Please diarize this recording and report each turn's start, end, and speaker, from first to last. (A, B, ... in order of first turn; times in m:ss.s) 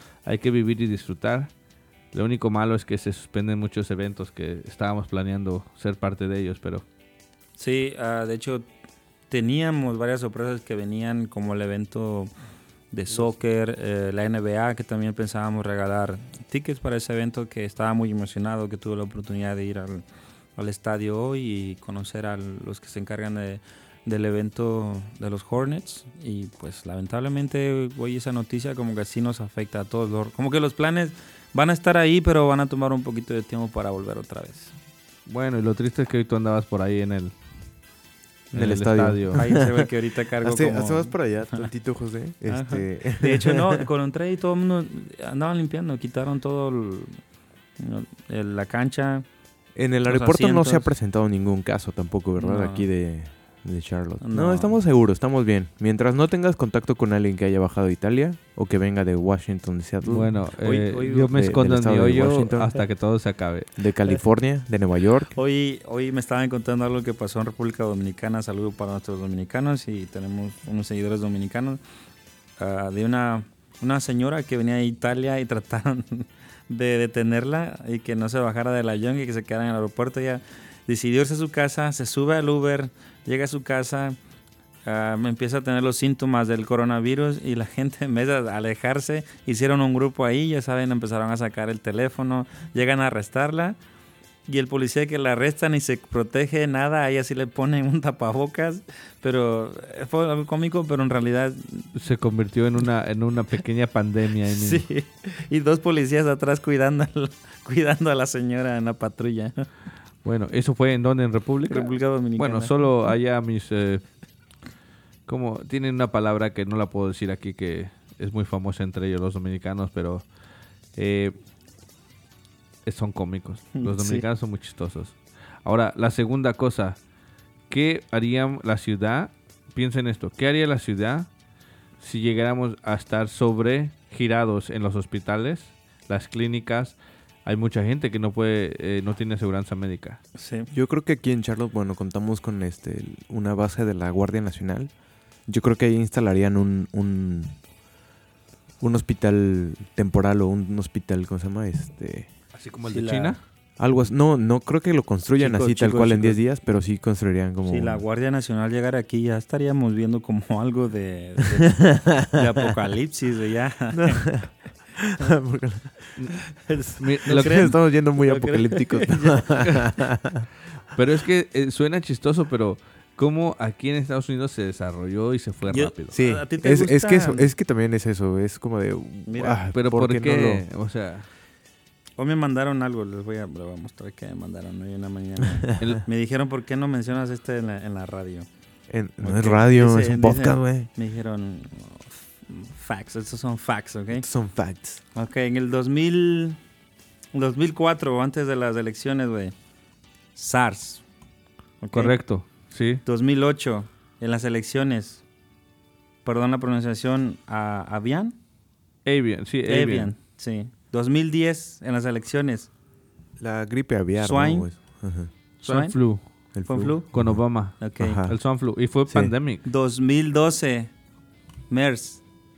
0:00.3-0:01.5 A
0:02.1-0:06.8 A
0:07.6-0:08.7 B
0:09.3-0:12.3 B
0:12.9-0:20.0 B
0:20.6-0:34.7 B
0:35.3-0:37.3 A
0:38.5-0:39.5 A
0:38.5-0:39.9 C
0:39.4-0:41.7 B
0:40.4-0:43.9 C
0:42.5-0:47.2 B
0:47.8-0:49.2 B
0:49.8-1:02.8 C
0:50.1-0:50.9 B
0:52.4-0:52.9 B
0:54.2-0:54.8 B
1:00.1-1:03.7 A
1:00.6-1:01.3 B
1:03.8-1:05.3 C
1:05.3-1:11.8 B
1:12.6-1:24.2 B
1:24.8-1:33.8 B
1:34.5-1:41.9 B
1:42.0-1:44.8 A
1:44.4-1:49.7 B
1:50.2-1:54.0 A
1:51.7-1:52.7 B
1:55.3-2:00.2 A
2:01.0-2:01.4 A
2:02.9-2:07.0 A
2:03.8-2:04.2 B
2:07.7-2:11.3 A
2:12.0-2:20.2 A
2:20.4-2:20.7 B
2:20.7-2:24.9 C
2:25.5-2:27.6 C
2:28.8-2:32.3 C
2:32.5-2:33.4 A
2:32.9-2:33.4 B
2:33.8-2:38.0 C
2:35.4-2:36.4 B
2:37.6-2:44.3 B
2:41.8-2:42.5 C
2:43.9-2:46.0 C
2:46.6-2:49.8 B
2:47.0-2:47.7 A
2:47.3-2:50.5 C
2:50.9-2:56.2 A
2:55.7-2:57.5 B
2:56.1-3:00.6 C
2:59.3-2:59.6 B
2:59.7-3:01.3 A
3:02.2-3:08.5 B
3:08.9-3:10.9 C
3:09.2-3:14.3 B
3:14.2-3:15.0 C
3:15.2-3:16.6 B
3:17.3-3:19.5 B
3:20.4-3:21.0 B
3:21.8-3:22.2 B
3:21.9-3:23.0 A
3:23.0-3:25.2 B
3:26.2-3:28.4 B
3:29.0-3:30.1 A
3:29.7-3:32.7 B
3:33.4-3:35.3 C
3:34.2-3:34.7 B
3:35.6-3:36.0 B
3:35.6-3:36.2 A
3:36.5-3:37.4 C
3:36.7-3:37.1 B
3:37.1-3:39.6 A
3:37.8-3:38.2 B
3:38.0-3:38.4 C
3:39.6-3:40.9 B
3:41.7-3:42.2 B